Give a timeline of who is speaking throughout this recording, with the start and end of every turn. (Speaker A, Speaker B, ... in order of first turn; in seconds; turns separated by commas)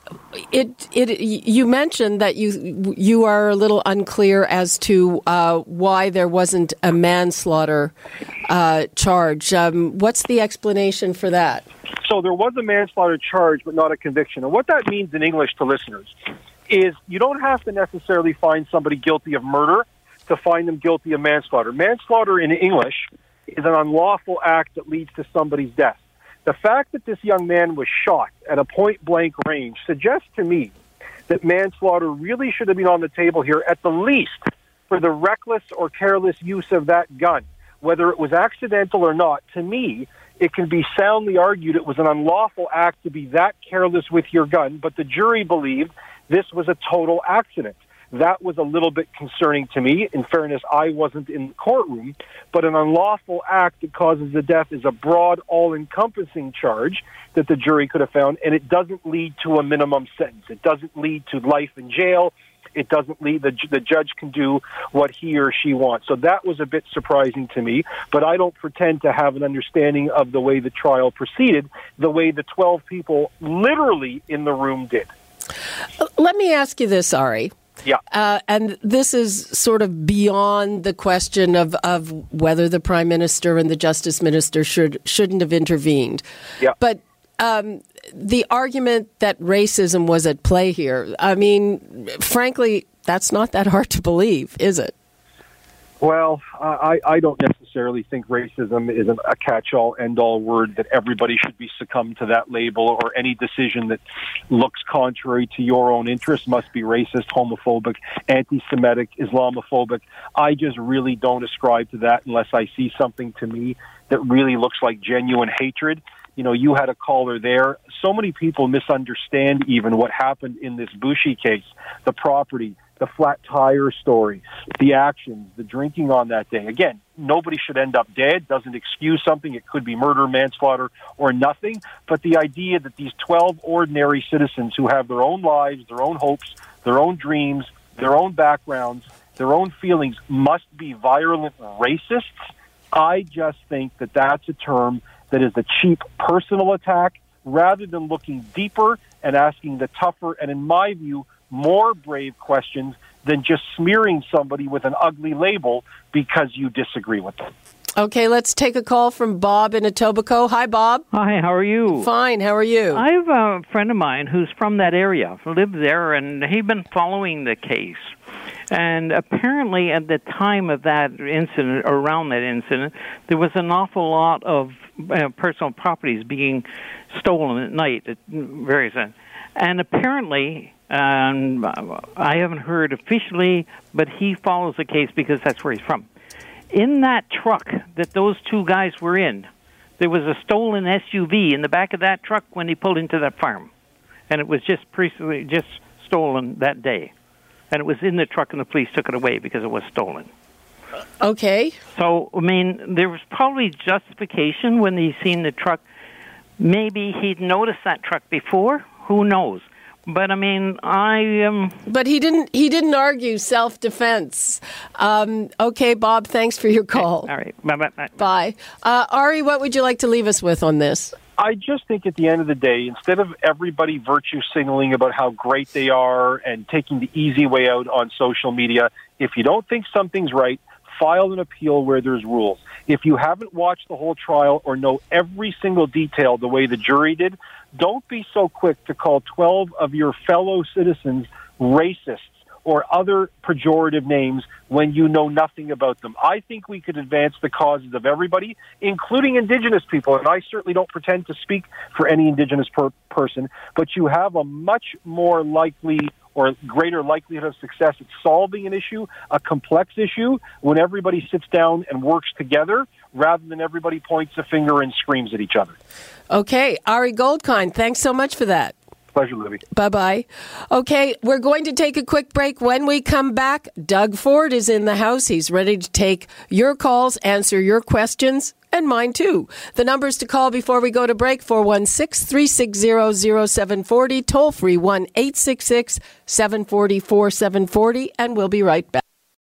Speaker A: 0.3-7.9, Speaker A: 8.5-11.7, Speaker B: 12.1-16.1, Speaker B: 16.7-30.7, Speaker B: 31.3-75.1, Speaker A: 76.0-77.5, Speaker A: 78.1-86.2, Speaker A: 86.8-94.9, Speaker B: 96.0-157.5, Speaker A: 158.0-161.1, Speaker C: 161.1-162.1, Speaker A: 161.9-163.0, Speaker C: 162.9-168.1, Speaker C: 168.7-186.1, Speaker C: 186.7-193.7, Speaker C: 194.3-197.1, Speaker C: 197.7-200.3, Speaker A: 201.2-201.8, Speaker C: 201.9-205.8, Speaker C: 206.6-211.8, Speaker A: 211.9-217.3, Speaker C: 217.0-218.2, Speaker A: 218.2-221.2, Speaker B: 221.4-265.8, Speaker A: 266.3-268.8, Speaker B: 269.1-269.6, Speaker A: 269.7-289.0